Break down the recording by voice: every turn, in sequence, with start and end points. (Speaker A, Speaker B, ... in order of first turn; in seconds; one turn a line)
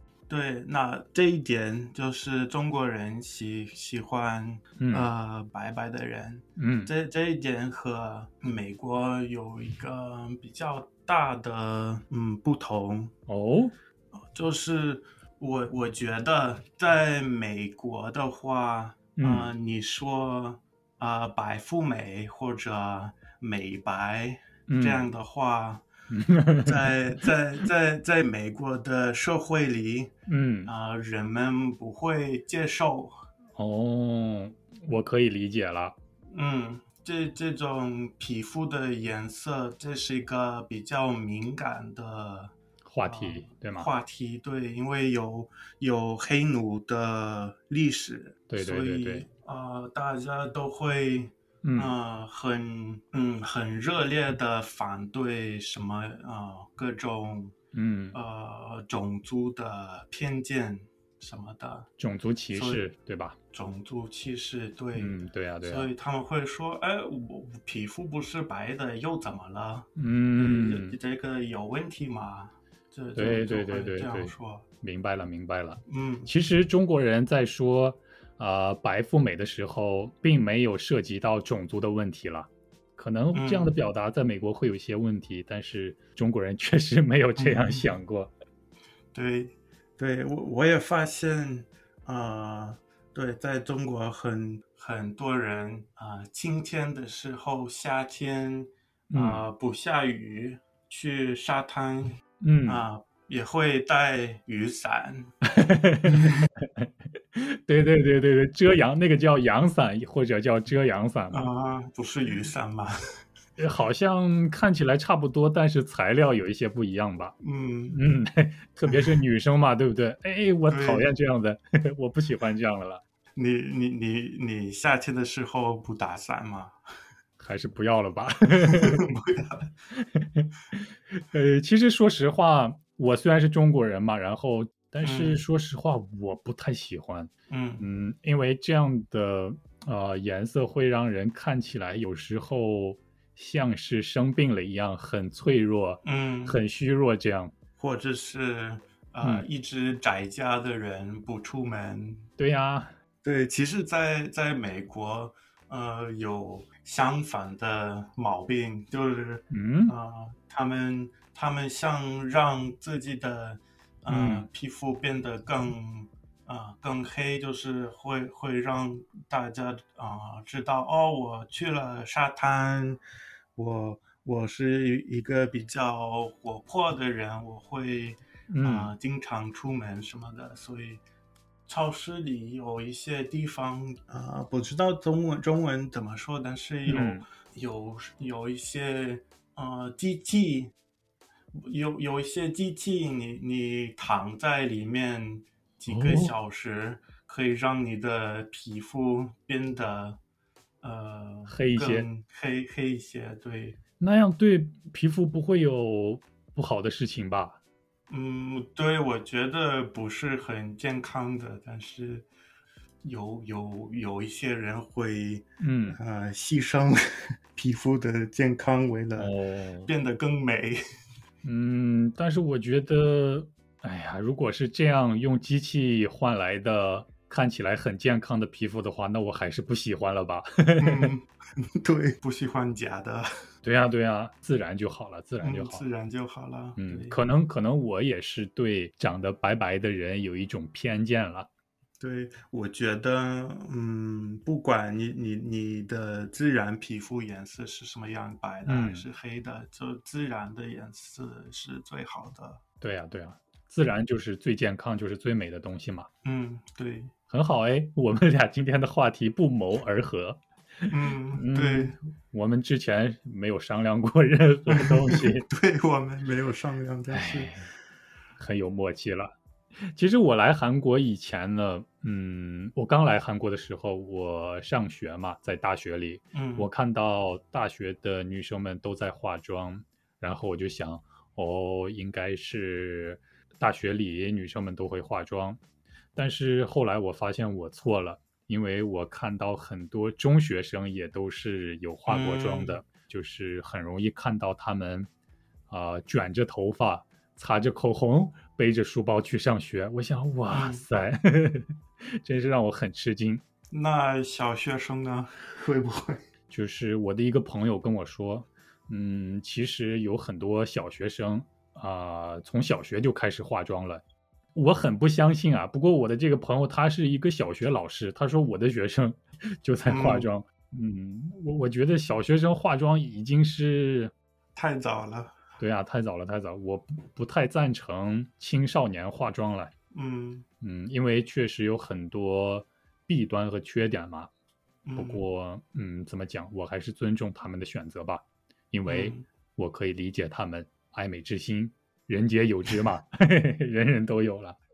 Speaker A: 0.3-13.1
Speaker B: 4.8-5.1
Speaker B: 6.6-6.9
Speaker B: 13.3-13.7
Speaker A: 14.3-25.9
Speaker B: 19.2-19.5
Speaker B: 24.7-25.1
Speaker B: 26.1-26.9
Speaker A: 26.6-30.1
Speaker B: 30.3-30.7
Speaker A: 30.7-33.2
Speaker B: 33.6-36.0
Speaker A: 36.3-57.5
Speaker B: 42.9-43.9
Speaker B: 48.5-49.3
Speaker B: 51.6-51.9
Speaker B: 57.7-58.2
Speaker A: 58.1-61.9
Speaker B: 62.0-63.4
Speaker A: 62.5-62.9
Speaker A: 63.5-74.7
Speaker B: 65.0-65.9
Speaker B: 70.0-71.0
Speaker B: 73.2-88.3
Speaker A: 75.9-76.3
Speaker A: 83.3-83.8
Speaker A: 87.4-87.9
Speaker A: 89.1-102.2
Speaker B: 99.1-99.5
Speaker B: 102.4-102.9
Speaker A: 102.7-105.3
Speaker B: 105.6-111.5
Speaker A: 106.1-106.5
Speaker A: 111.3-113.0
Speaker B: 113.6-117.3
Speaker A: 117.4-118.0
Speaker B: 117.9-123.0
Speaker A: 118.9-119.2
Speaker A: 120.7-121.1
Speaker A: 123.4-126.8
Speaker B: 127.4-129.1
Speaker A: 128.6-129.7
Speaker B: 129.9-147.5
Speaker A: 135.0-135.4
Speaker A: 137.5-137.9
Speaker A: 146.0-146.6
Speaker A: 147.8-152.3
Speaker B: 149.2-149.5
Speaker B: 152.4-152.9
Speaker A: 153.2-173.0
Speaker B: 159.5-159.9
Speaker B: 164.1-164.5
Speaker A: 173.6-181.0
Speaker B: 178.5-178.9
Speaker A: 181.7-190.7
Speaker B: 186.9-187.2
Speaker A: 191.6-200.2
Speaker B: 195.9-196.3
Speaker A: 200.8-203.8
Speaker B: 201.5-202.1
Speaker B: 204.0-207.6
Speaker A: 208.1-212.3
Speaker A: 213.0-217.0
Speaker B: 215.6-216.0
Speaker A: 217.5-219.3
Speaker B: 219.2-219.9
Speaker A: 219.9-220.8
Speaker B: 221.4-231.1
Speaker A: 230.8-233.3
Speaker B: 233.6-235.8
Speaker A: 235.4-237.2
Speaker B: 236.8-241.5
Speaker A: 242.0-252.6
Speaker B: 248.7-249.1
Speaker B: 252.8-256.1
Speaker A: 256.2-257.1
Speaker B: 257.3-265.4
Speaker A: 260.9-261.9
Speaker A: 264.7-267.6
Speaker B: 267.1-267.7
Speaker B: 268.4-269.3
Speaker B: 269.9-285.6
Speaker A: 276.3-276.7
Speaker B: 286.1-295.1
Speaker A: 292.1-292.8
Speaker B: 295.7-303.4
Speaker A: 300.5-300.8
Speaker A: 303.7-306.2
Speaker B: 306.5-314.0
Speaker B: 314.6-324.1
Speaker A: 319.9-320.3
Speaker A: 324.6-325.4
Speaker B: 325.6-329.7
Speaker A: 329.9-330.4
Speaker B: 330.6-334.3
Speaker A: 334.9-335.2
Speaker B: 335.0-344.6
Speaker A: 338.9-339.3